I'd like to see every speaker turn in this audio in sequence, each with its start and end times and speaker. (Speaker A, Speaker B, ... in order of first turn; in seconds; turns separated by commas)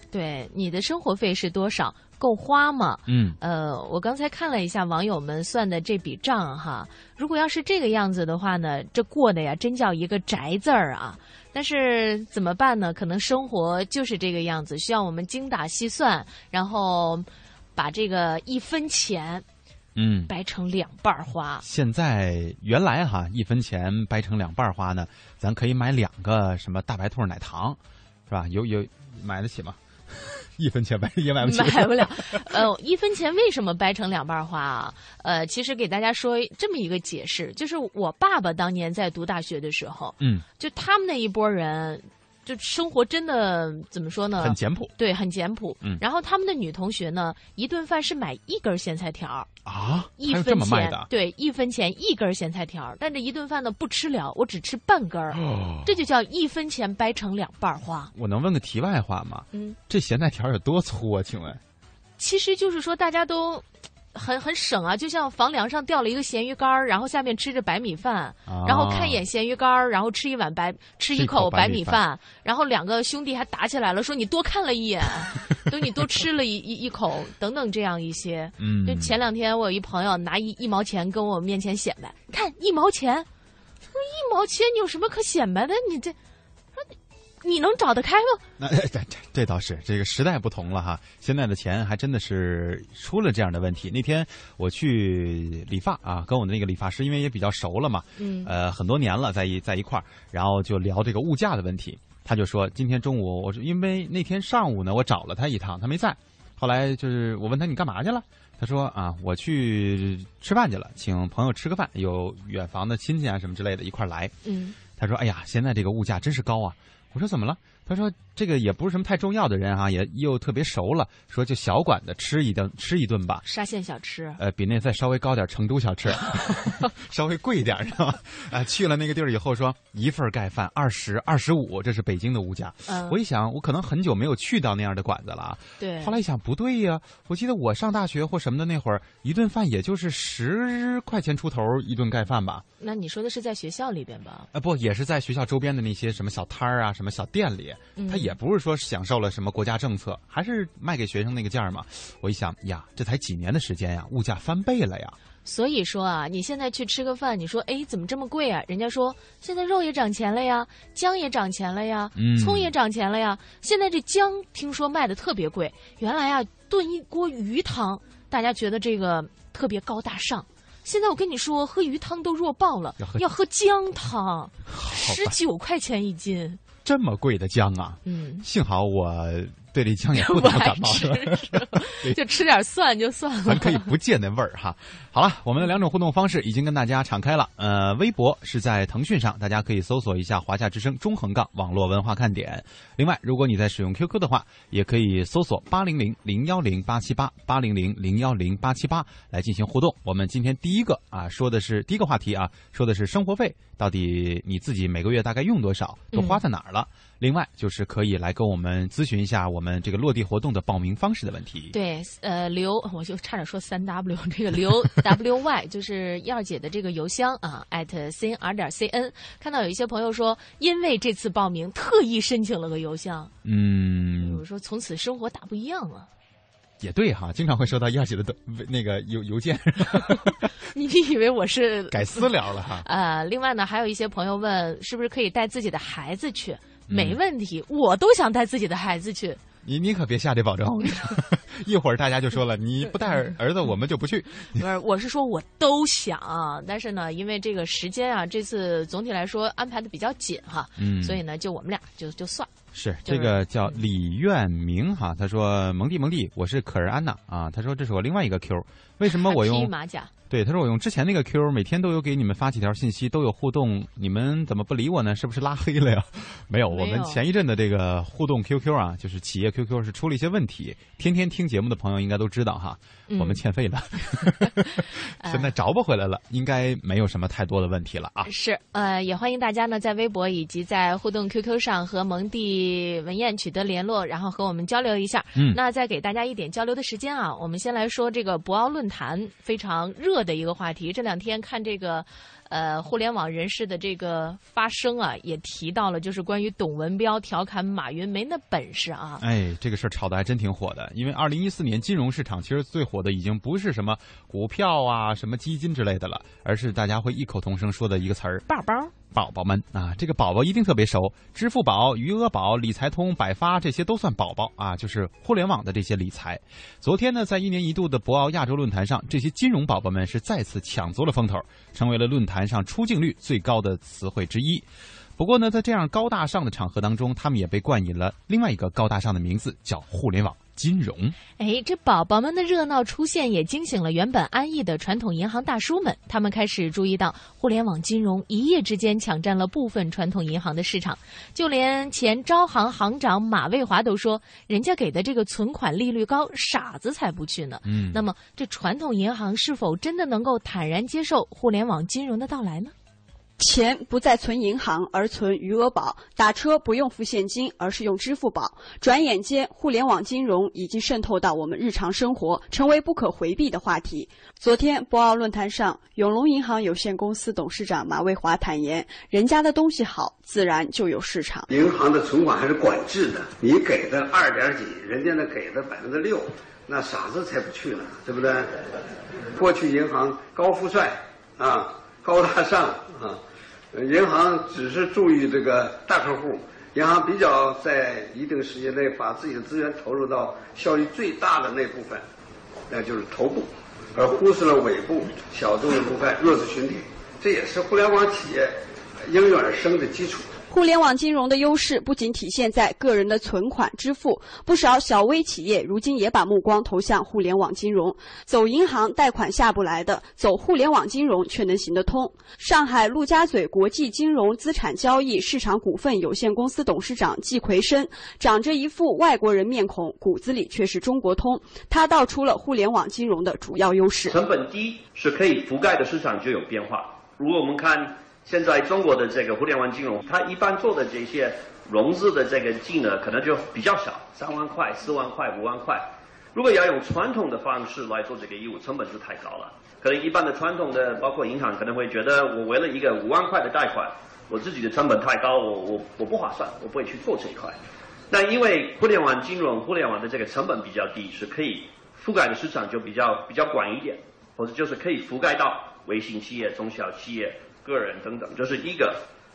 Speaker A: 0.1-19.4, Speaker B: 3.1-3.4, Speaker B: 19.9-20.3, Speaker A: 20.3-21.6, Speaker B: 21.6-32.6, Speaker A: 31.4-49.5, Speaker B: 40.2-40.5, Speaker B: 44.4-44.9, Speaker B: 49.6-51.1, Speaker A: 50.2-58.1, Speaker B: 55.3-55.9, Speaker B: 58.1-61.6, Speaker A: 59.5-59.8, Speaker A: 62.2-83.3, Speaker B: 68.5-69.2, Speaker B: 71.1-72.0, Speaker B: 78.6-79.1, Speaker A: 83.9-86.2, Speaker A: 87.4-88.4, Speaker B: 88.6-114.3, Speaker A: 98.2-98.5, Speaker A: 114.4-114.8, Speaker B: 114.9-123.4, Speaker A: 123.5-124.4, Speaker B: 124.4-142.6, Speaker A: 132.9-133.2, Speaker A: 135.8-136.2, Speaker A: 142.8-144.5, Speaker B: 144.5-155.2, Speaker A: 148.0-148.3, Speaker A: 155.4-176.6, Speaker B: 162.2-162.7, Speaker B: 174.7-175.4, Speaker B: 176.8-182.2, Speaker A: 178.1-178.4, Speaker A: 180.2-183.9, Speaker B: 183.5-211.8, Speaker A: 206.1-206.4, Speaker A: 211.7-223.3, Speaker B: 223.4-224.4, Speaker A: 224.2-226.1, Speaker B: 226.8-230.3, Speaker A: 230.7-232.3, Speaker B: 231.9-232.8, Speaker A: 232.8-239.4, Speaker B: 236.9-237.2, Speaker B: 239.6-244.7, Speaker A: 244.6-252.5, Speaker B: 250.8-251.2, Speaker B: 252.7-259.7, Speaker A: 253.1-253.8, Speaker A: 259.1-260.1, Speaker B: 260.3-278.3, Speaker A: 266.7-267.2, Speaker A: 273.1-273.4, Speaker A: 275.2-275.5, Speaker A: 278.3-299.2, Speaker B: 299.2-308.4, Speaker A: 308.5-308.9, Speaker B: 309.1-331.2, Speaker A: 331.4-352.7, Speaker B: 347.6-348.0, Speaker C: 353.4-371.5, Speaker D: 371.5-378.5, Speaker D: 379.4-383.2, Speaker D: 383.7-392.0, Speaker D: 392.7-398.6, Speaker D: 399.1-400.3, Speaker C: 400.5-424.2, Speaker E: 424.1-447.6, Speaker E: 448.1-459.0